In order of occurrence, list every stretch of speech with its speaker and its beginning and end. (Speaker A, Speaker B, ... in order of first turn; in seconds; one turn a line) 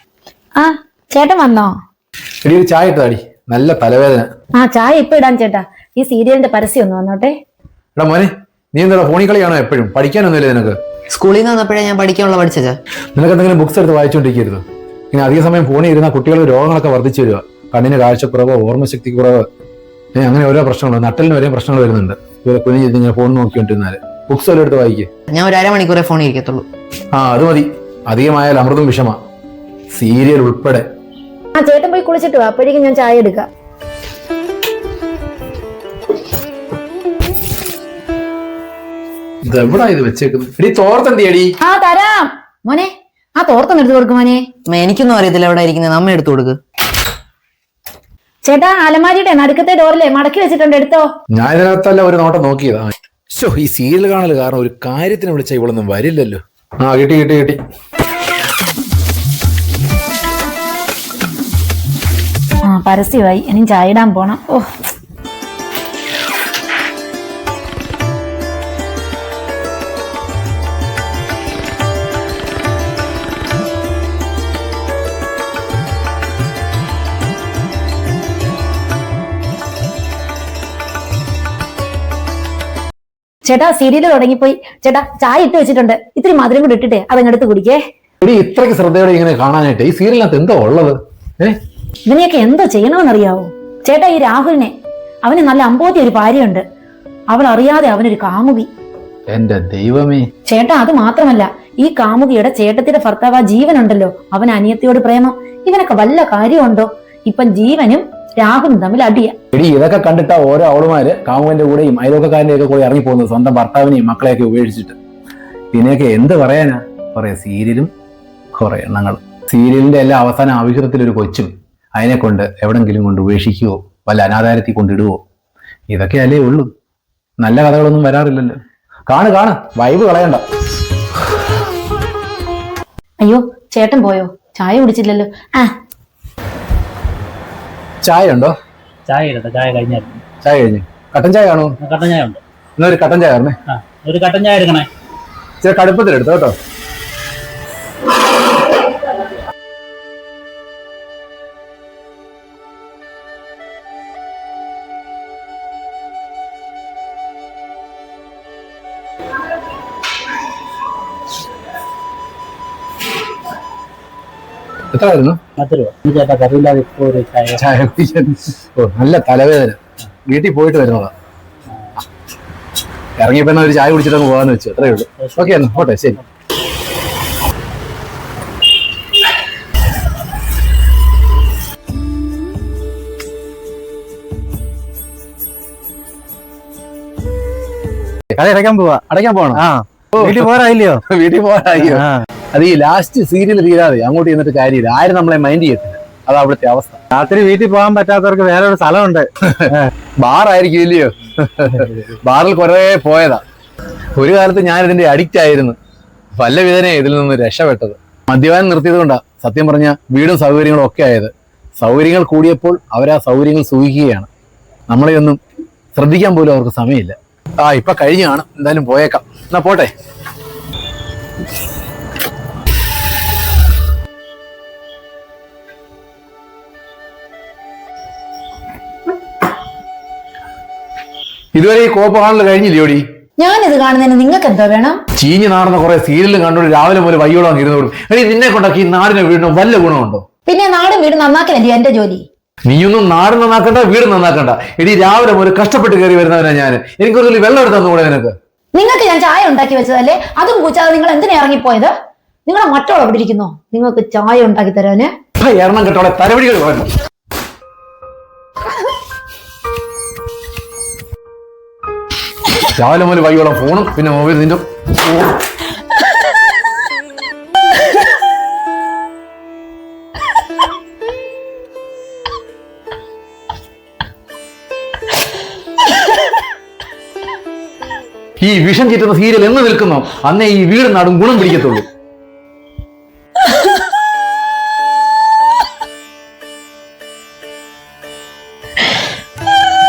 Speaker A: 0.6-1.8
Speaker B: 2.4-4.3
Speaker A: 4.6-7.3
Speaker B: 8.0-10.8
Speaker C: 11.1-12.8
Speaker B: 13.2-19.5
Speaker B: 20.2-25.1
Speaker C: 25.3-26.7
Speaker B: 27.1-29.2
Speaker B: 29.9-30.9
Speaker A: 31.6-33.5
Speaker B: 39.4-41.5
Speaker A: 41.6-44.5
Speaker C: 44.7-46.6
Speaker A: 48.4-51.1
Speaker B: 51.3-57.6
Speaker A: 62.6-64.7
Speaker A: 83.4-87.8
Speaker B: 88.2-91.6
Speaker A: 92.1-94.7
Speaker A: 95.2-96.6
Speaker A: 97.3-98.7
Speaker B: 99.3-100.3
Speaker A: 100.5-109.3
Speaker B: 109.5-115.0
Speaker B: 115.7-117.9
Speaker B: 118.5-125.2
Speaker B: 125.9-126.7
Speaker B: 127.4-130.4
Speaker A: 133.2-135.7
Speaker B: 138.0-138.6
Speaker D: 139.1-140.2
Speaker B: 140.4-141.8
Speaker D: 141.8-142.4
Speaker B: 142.8-143.6
Speaker D: 143.7-144.9
Speaker B: 145.6-146.6
Speaker B: 164.9-165.4
Speaker D: 165.6-167.6
Speaker B: 167.6-171.1
Speaker B: 173.2-176.2
Speaker D: 174.8-176.2
Speaker E: 188.4-189.0
Speaker B: 189.1-197.0
Speaker E: 189.6-191.0
Speaker E: 191.9-192.2
Speaker E: 197.1-199.9
Speaker B: 199.4-203.4
Speaker B: 204.2-205.8
Speaker B: 206.4-214.3
Speaker B: 214.9-215.4
Speaker B: 215.9-219.9
Speaker B: 231.5-233.1
Speaker A: 233.4-235.0
Speaker B: 235.2-240.2
Speaker A: 240.5-242.2
Speaker B: 242.7-248.4
Speaker A: 248.8-251.9
Speaker A: 252.5-255.1
Speaker B: 255.4-256.9
Speaker B: 262.7-265.2
Speaker B: 278.4-281.9